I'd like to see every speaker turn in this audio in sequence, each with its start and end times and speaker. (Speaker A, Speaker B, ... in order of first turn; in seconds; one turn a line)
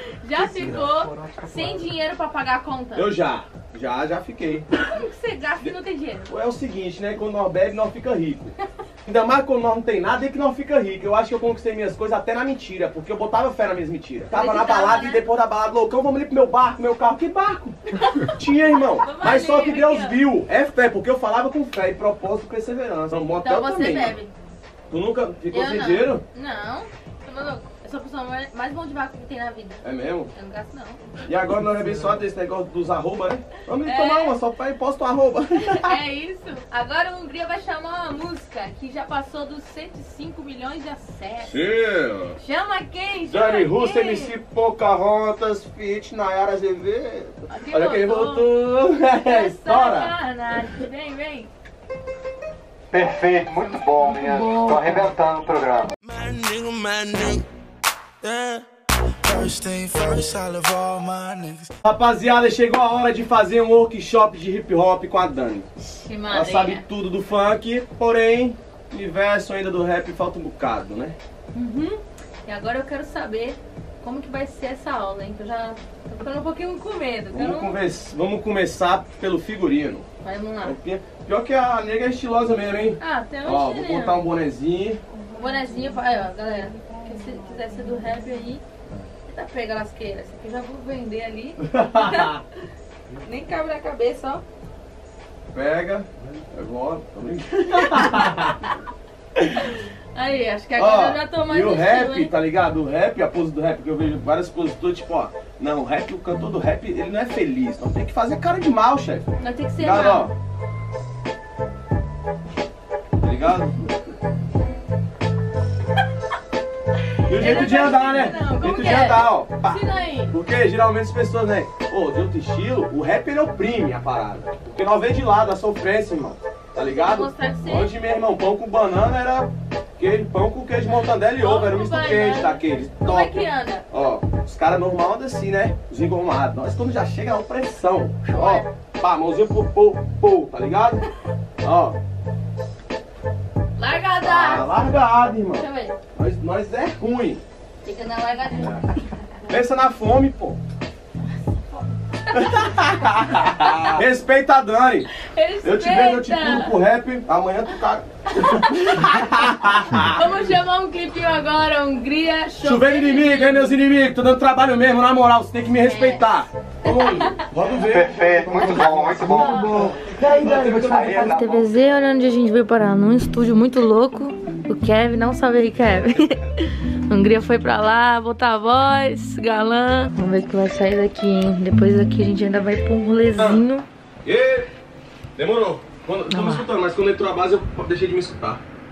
Speaker A: 0.2-3.1
Speaker B: 0.6-0.8
Speaker B: 3.0-4.7
Speaker A: 4.8-6.3
Speaker B: 6.3-24.2
Speaker A: 14.3-15.2
Speaker A: 19.0-20.2
Speaker A: 23.4-24.3
Speaker B: 24.9-26.2
Speaker A: 25.5-31.2
Speaker B: 29.8-30.3
Speaker B: 31.2-36.0
Speaker A: 33.8-34.3
Speaker A: 35.6-41.6
Speaker B: 41.4-42.4
Speaker A: 42.4-44.3
Speaker B: 43.2-50.1
Speaker A: 47.5-48.5
Speaker A: 49.2-51.5
Speaker C: 52.9-55.9
Speaker A: 53.5-55.2
Speaker D: 56.0-57.4
Speaker D: 58.2-58.6
Speaker D: 59.2-61.7
Speaker B: 61.8-65.7
Speaker A: 65.8-66.8
Speaker B: 66.3-71.2
Speaker A: 71.5-77.8
Speaker B: 77.3-80.1
Speaker A: 80.2-80.8
Speaker B: 80.6-85.0
Speaker A: 83.0-84.2
Speaker A: 85.3-88.6
Speaker A: 89.3-92.4
Speaker B: 91.6-92.4
Speaker A: 93.2-94.4
Speaker B: 95.5-98.6
Speaker A: 99.5-102.3
Speaker B: 100.7-110.3
Speaker A: 109.4-110.3
Speaker B: 113.2-113.9
Speaker B: 117.2-133.4
Speaker A: 117.3-120.3
Speaker A: 126.8-127.9
Speaker A: 131.4-133.8
Speaker B: 133.9-141.1
Speaker A: 138.3-138.7
Speaker B: 141.6-142.0
Speaker A: 143.8-144.8
Speaker B: 144.2-147.4
Speaker A: 145.5-146.0
Speaker A: 147.8-149.0
Speaker B: 148.5-148.8
Speaker B: 149.5-150.6
Speaker A: 152.3-152.7
Speaker B: 152.3-155.1
Speaker A: 153.3-153.9
Speaker A: 155.2-156.7
Speaker B: 155.6-160.2
Speaker A: 158.3-159.2
Speaker A: 160.1-163.7
Speaker B: 162.6-171.7
Speaker A: 165.8-166.3
Speaker A: 166.8-167.3
Speaker C: 167.9-170.0
Speaker A: 169.3-183.8
Speaker C: 170.8-171.6
Speaker B: 183.4-183.6
Speaker B: 184.2-184.7
Speaker B: 185.3-188.6
Speaker A: 186.3-186.7